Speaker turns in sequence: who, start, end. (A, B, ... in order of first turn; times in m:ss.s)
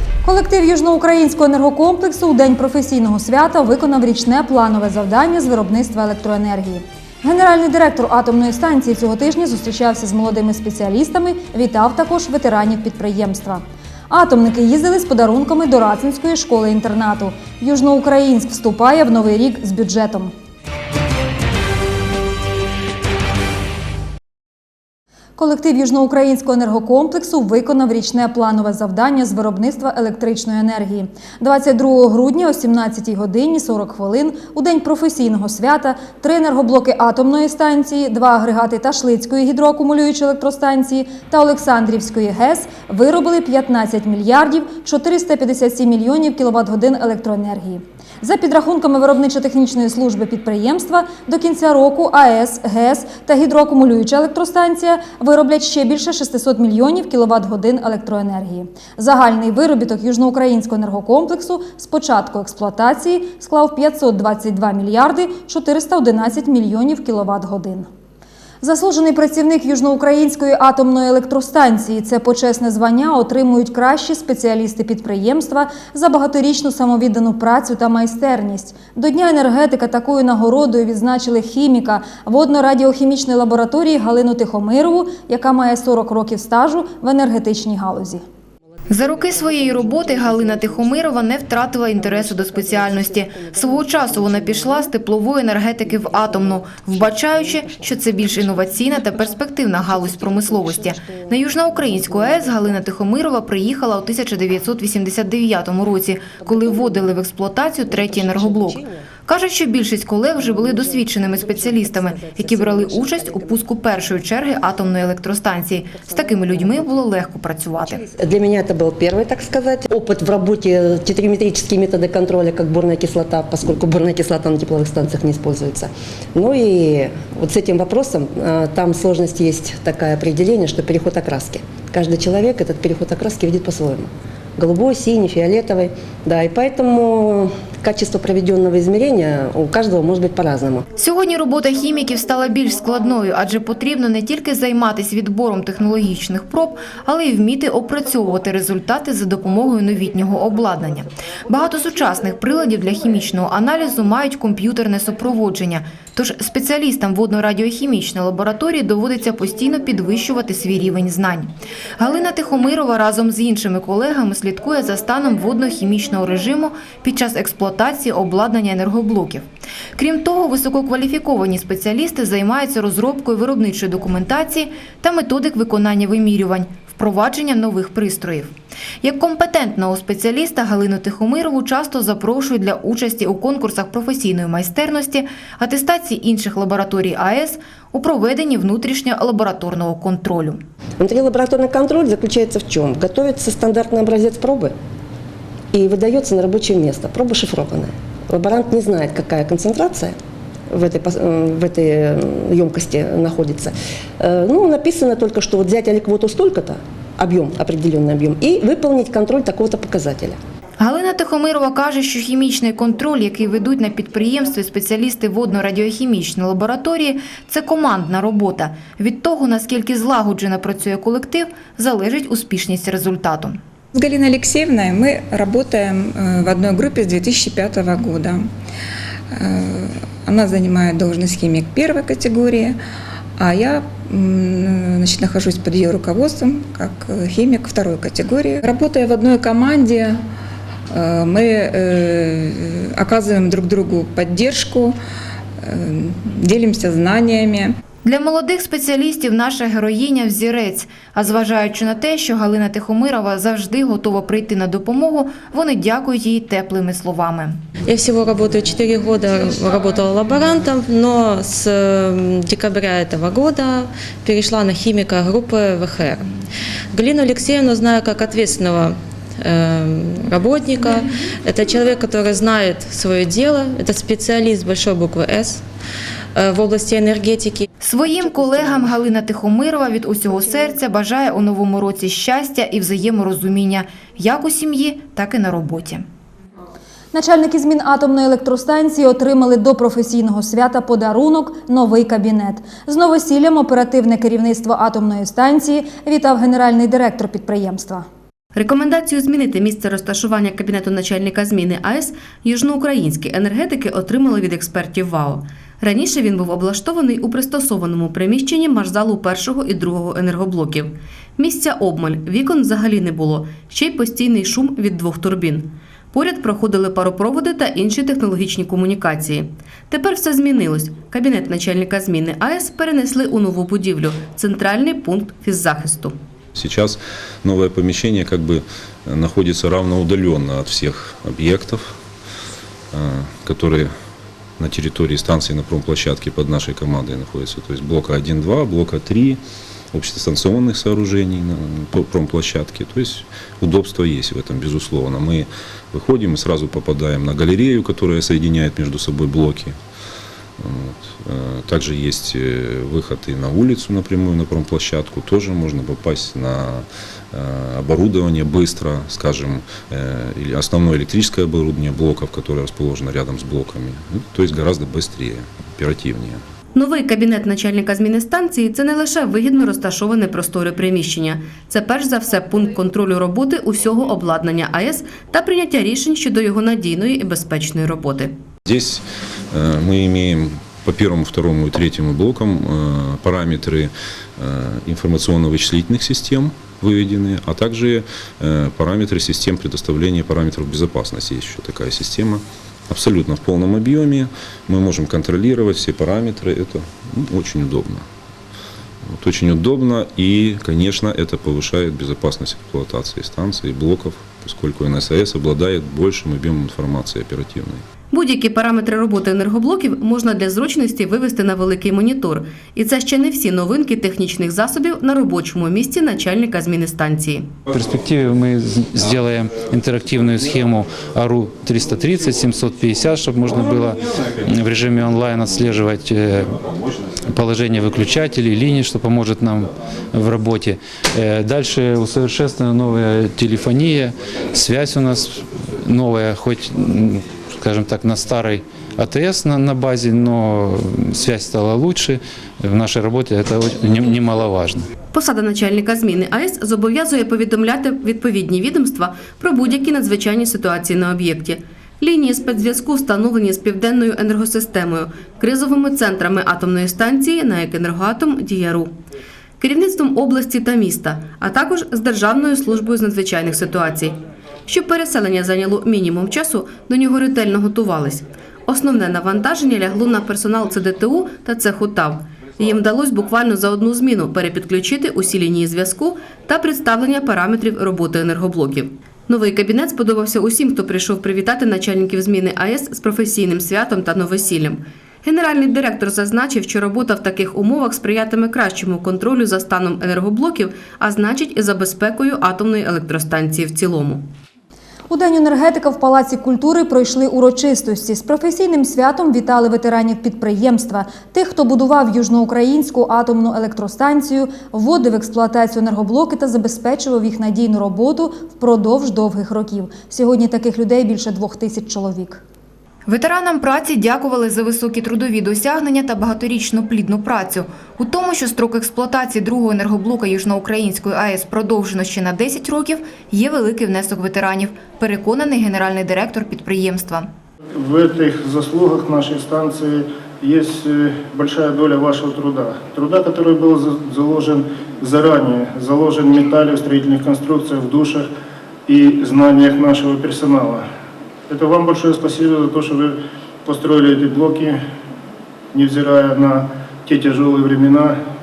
0:00.2-0:20.3 A
0:25.4-1:07.9 A
1:08.6-1:28.2 A
1:28.9-1:58.0 B
1:29.2-1:31.0 C
1:32.0-1:34.9 C
1:35.8-1:39.2 C
1:39.8-1:42.7 C
1:46.4-1:47.1 C
1:47.9-1:49.1 C
1:50.4-1:53.6 C
1:55.9-1:57.0 C
1:57.8-2:20.8 C
2:21.0-2:49.4 B
2:50.0-3:10.6 B
3:11.0-3:14.7 C
3:15.7-3:20.2 C
3:20.7-3:30.4 C
3:30.8-3:43.6 B
3:43.9-3:48.5 D
3:49.3-3:52.8 D
3:53.4-4:00.2 D
4:00.9-4:05.0 D
4:05.6-4:07.7 D
4:08.0-4:17.6 B
4:17.9-4:26.3 E
4:26.9-4:35.6 E
4:36.3-4:37.6 E
4:37.8-4:46.0 B
4:47.1-4:58.0 A
4:58.6-5:26.2 F
5:26.5-5:32.0 G
5:32.9-5:33.9 G
5:34.6-5:39.4 G
5:39.9-5:49.8 G
5:50.6-6:06.4 G
6:06.7-6:18.3 F
6:18.6-6:38.1 G
6:39.0-6:47.8 G
6:48.1-6:57.5 F
6:57.7-7:06.6 H
7:07.2-7:24.9 H
7:25.1-7:38.9 F
7:39.6-8:14.3 F
8:15.1-8:32.4 A
8:33.0-8:47.3 B
8:47.7-8:58.3 I
8:58.9-9:00.8 I
9:01.5-9:04.8 I
9:05.7-9:08.2 I